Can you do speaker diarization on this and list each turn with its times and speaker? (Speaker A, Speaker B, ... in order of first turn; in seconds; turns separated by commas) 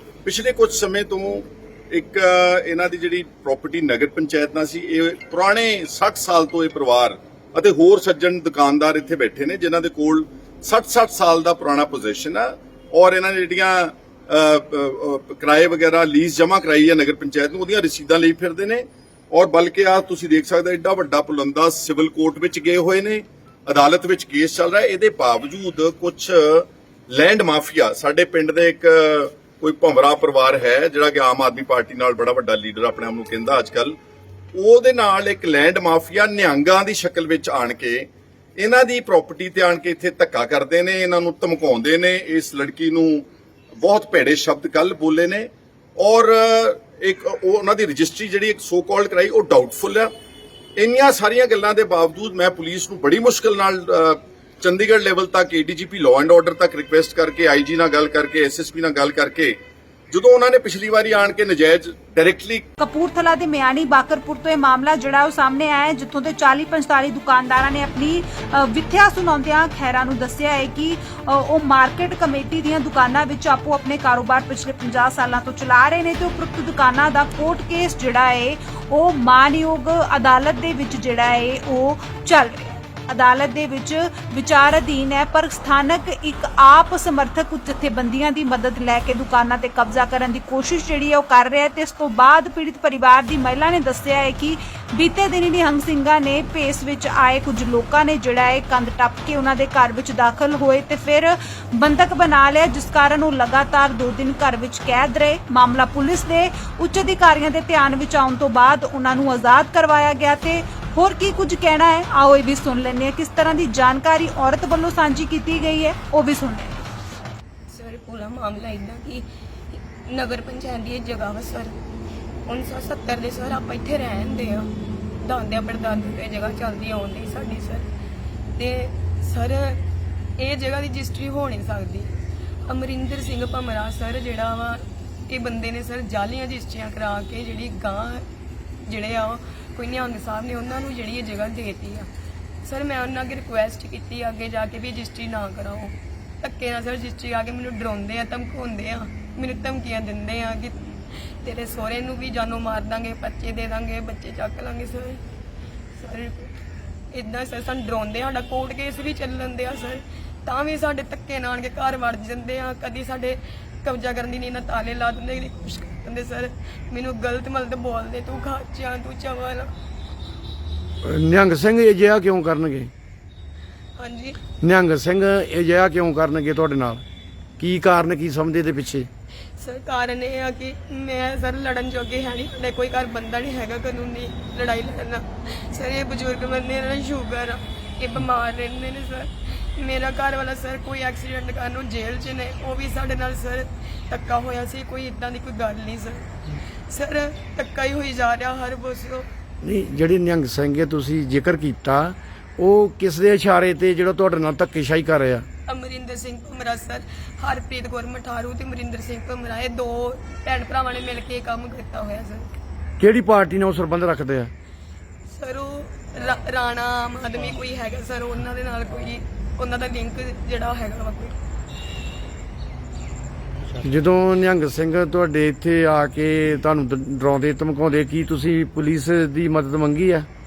Speaker A: 0.2-34.0, Speaker A: 34.5-43.2, Speaker A: 43.8-50.1, Speaker A: 50.8-59.5, Speaker A: 60.1-62.6, Speaker B: 62.8-116.8, Speaker C: 117.7-121.8, Speaker C: 122.5-127.9, Speaker C: 128.6-129.8, Speaker C: 130.4-138.2, Speaker C: 138.9-142.1, Speaker C: 142.6-150.9, Speaker C: 151.4-155.2, Speaker C: 156.0-156.5, Speaker C: 157.1-169.7, Speaker D: 171.0-172.9, Speaker C: 174.0-174.4, Speaker D: 174.6-177.0, Speaker D: 177.6-179.1, Speaker C: 179.6-196.3, Speaker C: 196.9-199.3, Speaker D: 199.6-205.4, Speaker C: 205.7-212.6, Speaker D: 213.0-214.5, Speaker C: 215.3-221.4, Speaker D: 223.8-230.3